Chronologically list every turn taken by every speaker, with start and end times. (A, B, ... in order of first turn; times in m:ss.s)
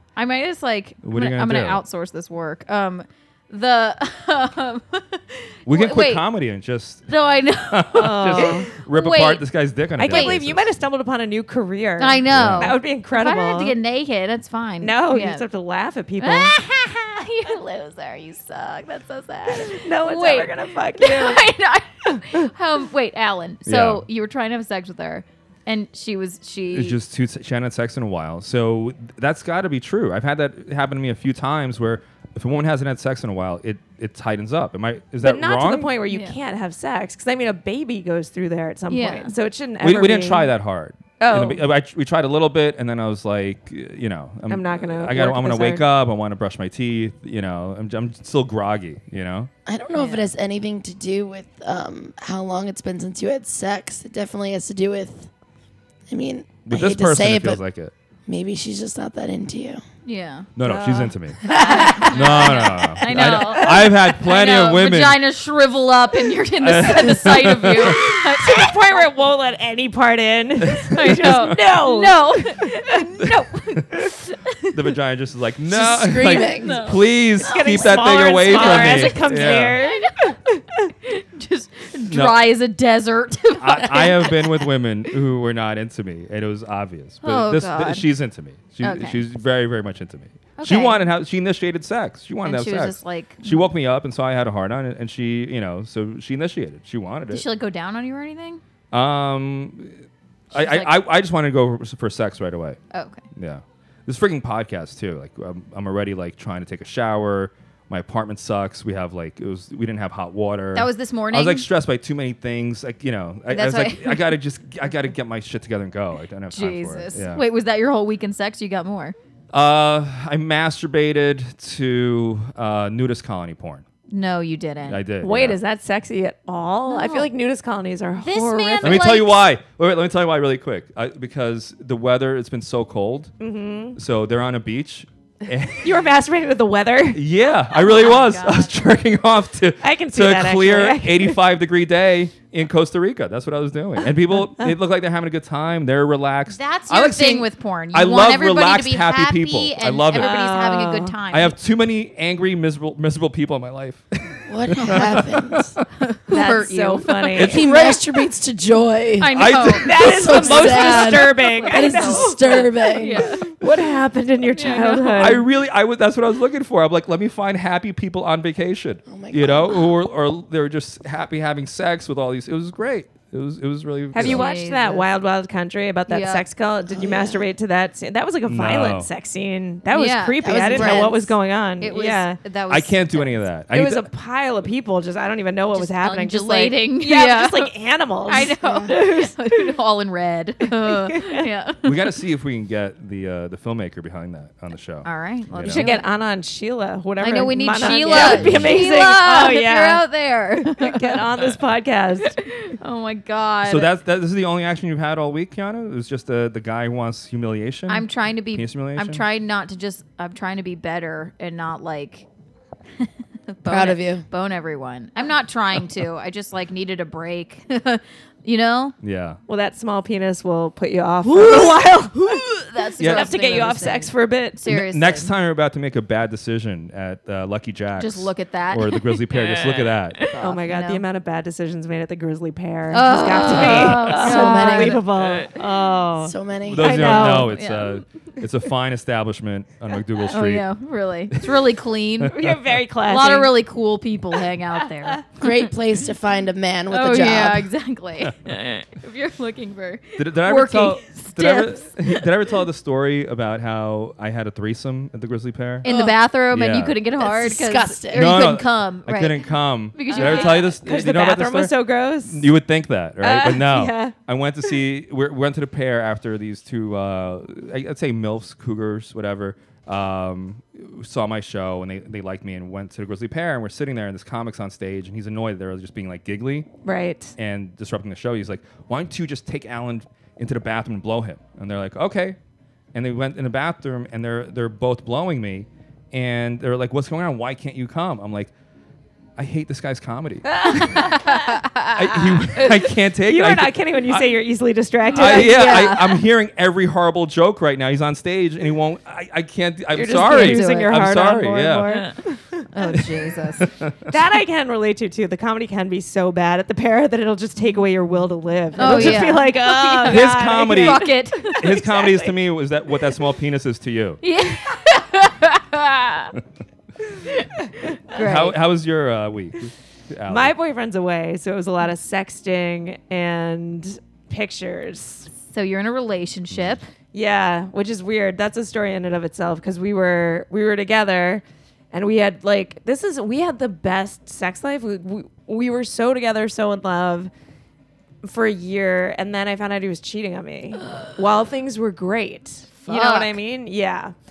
0:00.2-0:06.2 A
0:01.0-0:01.8 B
0:05.7-0:07.1 B
0:07.1-0:09.4 A
0:07.7-0:10.6 B
0:08.0-0:08.7 C
0:10.0-0:13.8 C
0:10.0-0:10.4 A
0:12.0-0:15.4 A
0:12.3-0:12.7 B
0:14.8-0:16.6 C
0:16.2-0:27.0 A
0:19.5-0:21.4 C
0:23.7-0:24.0 B
0:26.7-0:35.9 B
0:35.2-0:40.5 C
0:36.1-0:36.4 A
0:38.9-0:39.3 A
0:39.8-0:49.5 B
0:41.2-0:41.6 C
0:44.5-0:45.8 C
0:49.7-0:55.3 D
0:50.0-0:50.3 A
0:56.1-0:57.6 D
0:56.7-0:57.9 B
0:58.3-0:59.8 D
1:00.0-1:00.5 A
1:00.6-1:05.2 B
1:00.6-1:04.0 C
1:01.4-1:09.0 A
1:06.6-1:08.1 B
1:07.7-1:13.0 C
1:10.6-1:11.6 B
1:10.8-1:14.8 A
1:14.7-1:19.8 B
1:15.7-1:16.9 D
1:16.4-1:20.4 A
1:17.4-1:20.9 C
1:21.0-1:24.5 A
1:22.1-1:22.4 B
1:23.6-1:37.4 B
1:27.2-1:28.1 A
1:28.8-1:29.2 A
1:30.6-1:31.0 A
1:32.4-1:33.7 A
1:37.3-1:38.6 A
1:38.9-1:40.0 B
1:40.5-1:40.9 A
1:40.5-1:42.8 B
1:42.9-1:43.2 A
1:43.3-1:57.4 B
1:50.7-1:51.7 A
1:53.5-1:54.4 A
1:56.5-1:59.2 A
1:59.5-2:03.8 B
2:04.1-2:05.0 A
2:04.9-2:05.6 B
2:05.2-2:09.2 C
2:06.9-2:07.3 A
2:08.2-2:09.4 A
2:08.8-2:13.3 B
2:13.4-2:14.0 C
2:14.0-2:15.9 B
2:15.8-2:17.2 C
2:17.1-2:30.4 B
2:17.7-2:18.8 A
2:19.8-2:21.4 C
2:24.0-2:24.7 C
2:26.5-2:31.6 A
2:30.1-2:31.1 C
2:31.3-2:35.8 B
2:34.5-2:35.7 D
2:36.0-2:37.5 A
2:36.3-2:37.7 C
2:37.4-2:38.2 B
2:37.4-2:43.3 D
2:39.2-2:43.6 A
2:39.3-2:41.0 B
2:39.8-2:45.4 C
2:44.5-2:45.4 A
2:45.2-2:54.5 B
2:49.1-2:49.9 D
2:54.1-3:02.4 C
2:54.2-2:55.1 A
2:56.1-2:56.4 A
2:56.9-2:57.5 D
2:58.5-2:59.1 B
2:59.9-3:03.4 A
3:00.4-3:01.3 D
3:02.7-3:04.1 B
3:03.7-3:09.7 C
3:05.7-3:07.7 A
3:08.3-3:12.0 A
3:08.6-3:08.9 D
3:10.8-3:11.4 C
3:11.8-3:15.9 B
3:15.0-3:16.1 A
3:15.7-3:20.0 C
3:17.2-3:21.2 A
3:18.1-3:18.7 B
3:20.6-3:22.4 C
3:22.2-3:23.9 A
3:23.6-3:29.2 B
3:27.9-3:32.3 A
3:33.0-3:39.0 A
3:33.6-3:34.2 D
3:39.0-3:39.4 B
3:39.5-3:44.6 C
3:42.2-3:45.3 A
3:43.0-3:43.3 B
3:44.7-3:50.2 B
3:48.0-3:51.0 A
3:50.4-3:57.6 C
3:52.9-3:55.6 A
3:53.7-3:55.0 D
3:56.2-3:57.1 D
3:56.7-4:00.7 B
3:57.0-3:58.0 A
4:00.3-4:02.4 A
4:02.2-4:02.7 B
4:02.3-4:03.5 C
4:03.0-4:05.6 A
4:05.4-4:07.7 D
4:06.9-4:12.2 A
4:10.2-4:15.8 B
4:15.8-4:20.8 A
4:15.8-4:16.2 D
4:16.5-4:17.0 B
4:17.2-4:18.5 D
4:18.1-4:21.7 B
4:20.1-4:22.5 C
4:22.3-4:36.7 B
4:23.2-4:24.1 C
4:36.8-4:37.3 C
4:37.4-4:42.4 B
4:42.9-4:48.5 B
4:49.4-4:51.3 B
4:50.5-4:51.4 C
4:50.7-4:52.0 A
4:52.0-4:54.3 B
4:52.6-4:56.0 C
4:55.1-4:56.2 A
4:55.1-5:01.9 B
4:59.9-5:02.7 C
5:00.2-5:01.0 A
5:02.7-5:03.7 A
5:03.6-5:04.1 B
5:04.1-5:12.4 C
5:08.8-5:11.7 A
5:08.8-5:09.2 B
5:10.1-5:14.2 B
5:14.2-5:16.4 A
5:18.1-5:18.6 A
5:18.1-5:20.6 B
5:20.3-5:25.3 C
5:25.4-5:26.9 A
5:27.1-5:37.3 C
5:38.2-5:44.1 C
5:42.8-5:43.4 A